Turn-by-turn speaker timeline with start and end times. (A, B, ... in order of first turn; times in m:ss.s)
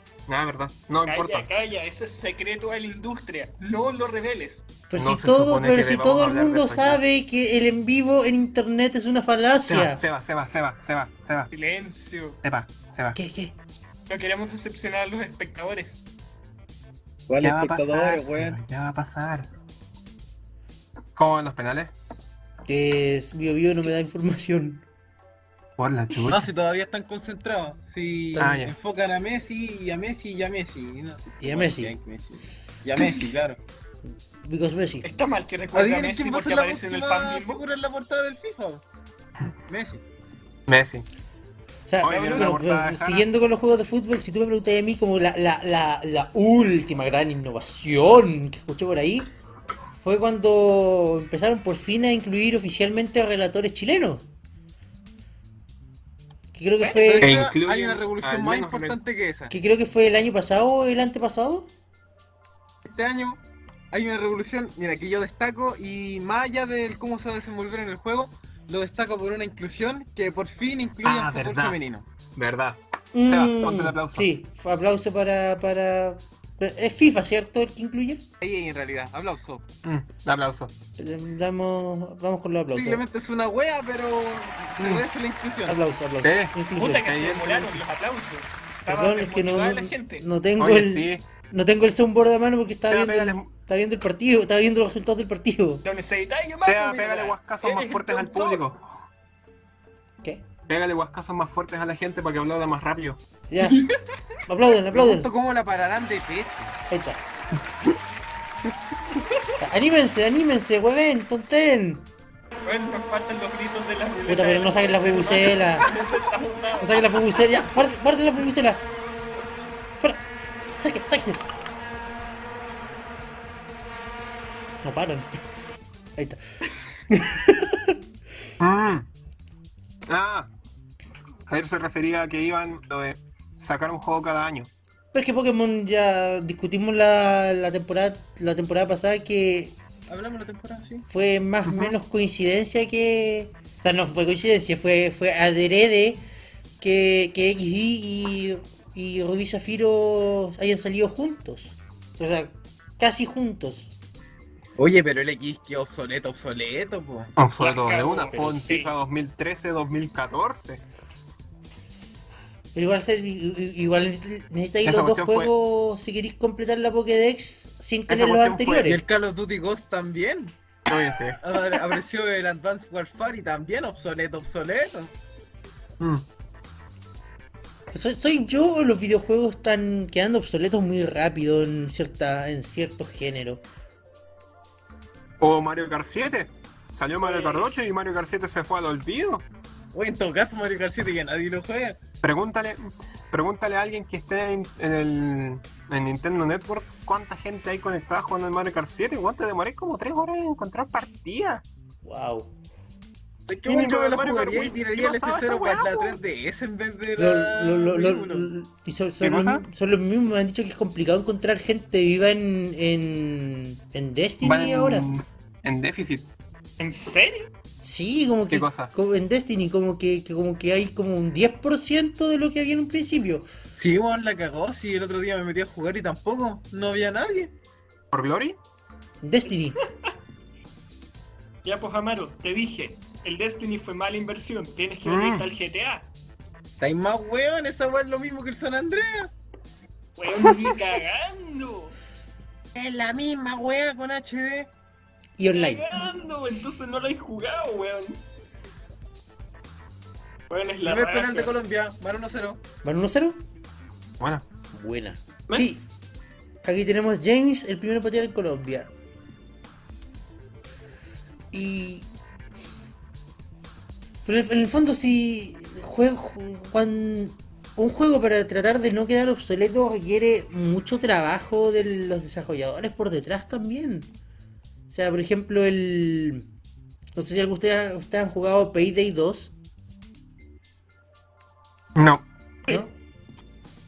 0:00.3-0:01.5 A
0:01.0-0:04.7 B
0:04.9-0:10.0 C
0:04.9-0:07.0 A
0:09.7-0:11.5 A
0:11.5-0:12.4 B
0:12.4-0:13.2 A
0:13.1-0:13.5 C
0:14.1-0:16.0 B
0:17.3-0:18.6 D
0:17.4-0:19.5 A
0:21.2-0:21.9 A
0:22.7-0:24.8 C
0:25.8-0:26.5 A
0:26.2-0:33.6 D
0:28.4-0:28.7 A
0:31.4-0:31.9 C
0:34.4-0:35.1 C
0:35.0-0:37.6 B
0:35.7-0:38.8 D
0:39.7-0:40.0 D
0:40.7-0:41.0 A
0:41.9-0:49.3 C
0:42.0-0:43.3 A
0:42.0-0:42.6 B
0:49.9-0:54.2 C
0:56.5-0:57.4 C
0:57.0-0:59.5 D
0:57.2-0:59.0 A
0:59.5-1:01.7 C
1:02.8-1:03.4 D
1:03.9-1:12.1 D
1:11.0-1:11.8 A
1:12.3-1:14.3 A
1:13.1-1:18.2 C
1:18.4-1:19.6 D
1:19.8-1:20.7 A
1:21.0-1:23.0 C
1:22.7-1:25.8 D
1:24.8-1:25.0 A
1:25.7-1:27.1 C
1:26.2-1:27.8 A
1:26.7-1:30.2 B
1:28.9-1:35.8 C
1:30.6-1:31.2 A
1:32.9-1:33.5 A
1:35.8-1:38.7 B
1:36.6-1:38.8 A
1:40.7-1:43.2 A
1:43.5-1:43.8 C
1:44.5-1:45.3 C
1:44.9-1:46.8 D
1:46.9-1:47.2 C
1:49.6-1:52.1 C
1:52.6-1:57.5 B
1:54.3-1:55.9 C
1:56.8-1:58.8 C
2:00.0-2:01.4 C
2:04.8-2:05.3 C
2:07.1-2:08.0 C
2:08.6-2:09.1 A
2:10.1-2:10.5 A
2:11.5-2:14.7 A
2:15.1-2:19.8 C
2:20.1-2:21.0 D
2:21.1-2:26.2 C
2:21.7-2:21.9 A
2:26.8-2:33.9 C
2:34.8-2:37.3 D
2:37.4-2:40.8 A
2:37.6-2:38.9 B
2:38.3-2:38.7 C
2:42.7-2:49.0 C
2:44.8-2:45.5 A
2:48.1-2:49.0 A
2:48.8-2:50.5 D
2:50.9-2:51.4 A
2:51.4-2:55.1 D
2:56.0-2:56.2 A
2:57.9-3:03.6 C
3:05.4-3:09.4 A
3:07.2-3:07.9 B
3:09.9-3:12.0 D
3:12.2-3:21.6 A
3:22.0-3:22.5 C
3:23.5-3:28.5 D
3:23.6-3:26.2 A
3:27.2-3:35.1 C
3:29.2-3:29.6 A
3:34.4-3:36.3 A
3:36.8-3:37.5 B
3:37.8-3:43.4 C
3:38.5-3:38.9 A
3:43.7-3:47.5 D
3:48.1-3:48.6 A
3:49.2-3:49.8 C
3:49.8-3:50.1 B
3:51.6-3:56.1 B
3:55.0-3:55.5 A
3:56.8-3:59.3 D
4:00.2-4:01.9 B
4:02.7-4:04.7 D
4:05.4-4:05.8 C
4:05.5-4:08.2 B
4:10.5-4:11.6 B
4:10.8-4:12.6 D
4:12.8-4:13.4 C
4:14.2-4:14.4 A
4:14.7-4:15.8 C
4:16.6-4:18.9 C
4:21.5-4:22.1 C
4:24.2-4:34.1 C
4:34.9-4:36.5 C
4:37.1-4:39.5 C
4:41.9-4:42.2 A
4:42.7-4:42.9 C